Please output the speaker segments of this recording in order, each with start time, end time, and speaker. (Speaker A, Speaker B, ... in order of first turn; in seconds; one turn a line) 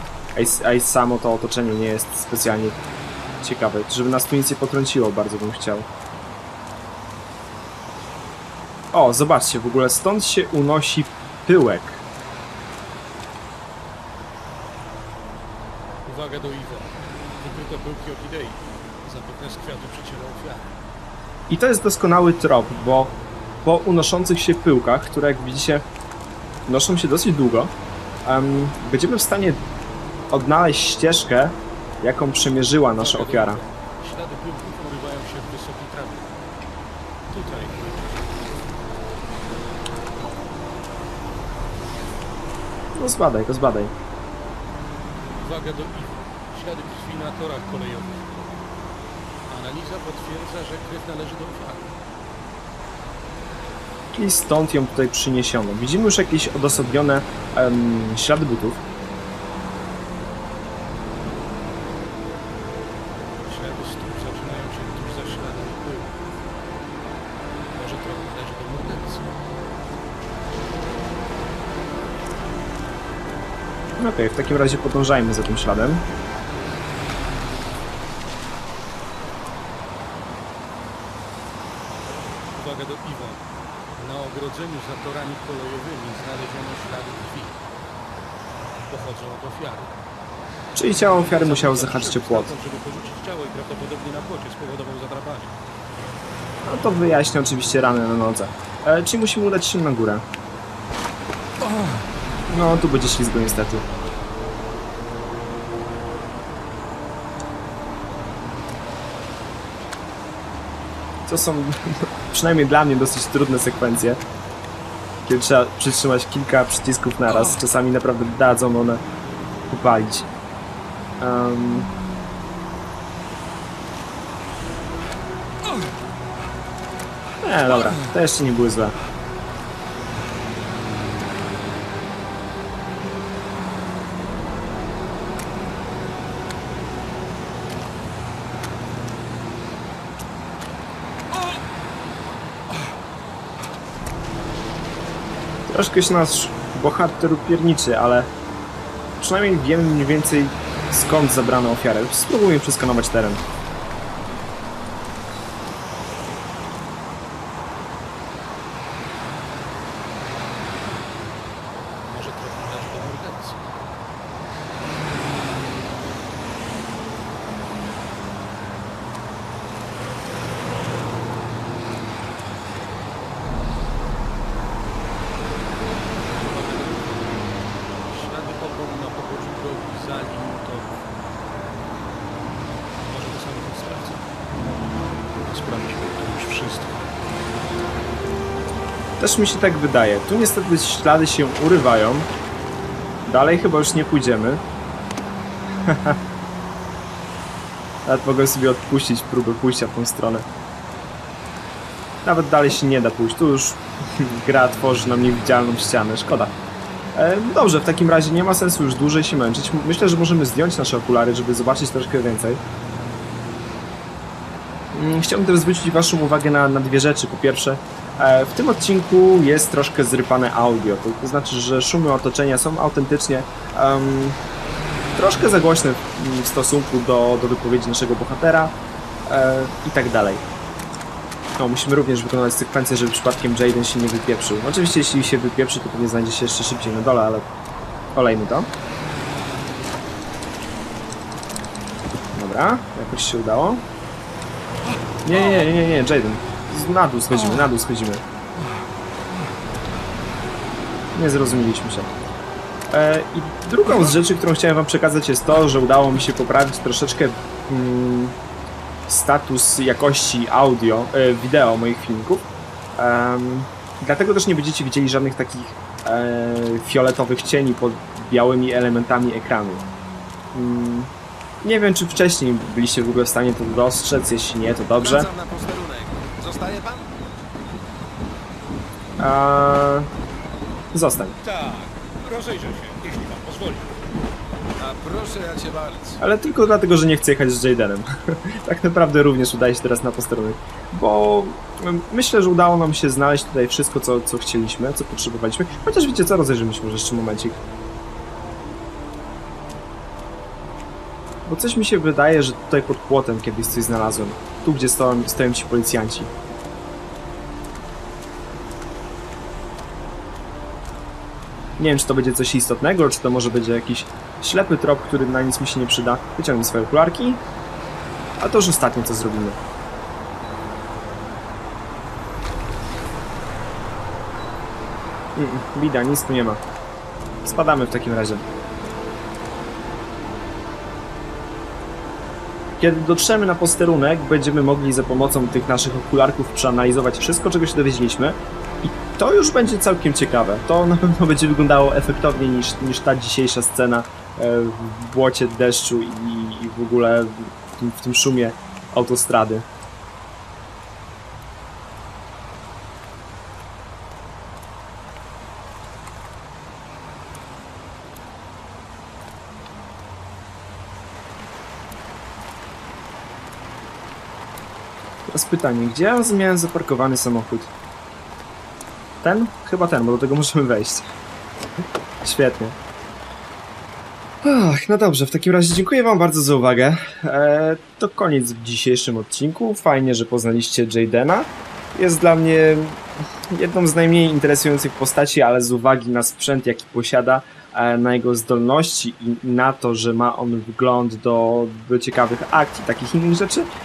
Speaker A: 0.3-2.8
Speaker A: 3.4-5.9
Speaker A: 8.9-12.0
Speaker B: 16.0-20.7
Speaker A: 21.5-25.8
Speaker A: 26.7-27.7
Speaker A: 28.2-29.6
Speaker A: 30.3-33.6
Speaker B: 33.0-36.3
Speaker B: 37.3-38.3
Speaker A: 43.0-43.9
Speaker B: 45.4-48.5
Speaker B: 49.5-51.9
Speaker A: 54.1-58.8
Speaker B: 63.4-66.1
Speaker B: 67.7-69.3
Speaker A: 74.0-76.0
Speaker B: 82.5-83.4
Speaker B: 84.0-87.6
Speaker B: 88.9-90.0
Speaker A: 90.7-92.5
Speaker B: 91.0-95.5
Speaker A: 96.7-100.2
Speaker A: 102.5-103.8
Speaker A: 111.3-114.2
Speaker A: 115.2-119.0
Speaker A: 119.7-120.3
Speaker A: 121.2-121.9
Speaker A: 127.4-128.9
Speaker A: 145.7-148.3
Speaker A: 149.2-153.4
Speaker B: 162.1-163.7
Speaker B: 176.3-180.9
Speaker B: 183.1-184.2
Speaker B: 185.3-187.0
Speaker A: 189.2-192.3
Speaker A: 193.2-194.6
Speaker A: 195.8-196.2
Speaker A: 198.1-200.4
Speaker A: 202.2-206.5
Speaker A: 207.2-212.6
Speaker A: 214.9-224.4
Speaker A: 225.2-228.7
Speaker A: 229.3-230.4
Speaker A: 231.6-237.4
Speaker A: 238.1-238.7
Speaker A: 242.3-243.8
Speaker A: 245.2-248.2
Speaker A: 251.1-252.1
Speaker A: 252.9-258.4
Speaker A: 259.1-269.8
Speaker A: 270.5-271.1
Speaker A: 271.6-275.3
Speaker C: 275.0-277.0
Speaker A: 279.2-280.1
Speaker A: 280.9-281.4
Speaker B: 281.4-283.9
Speaker C: 284.8-286.2
Speaker A: 286.2-297.6
Speaker A: 301.4-306.3
Speaker A: 311.8-317.4
Speaker A: 318.4-319.6
Speaker A: 325.4-326.6
Speaker A: 327.4-328.4
Speaker A: 332.8-349.6
Speaker A: 365.3-367.7
Speaker A: 369.2-371.1
Speaker A: 372.2-372.8
Speaker A: 374.4-393.7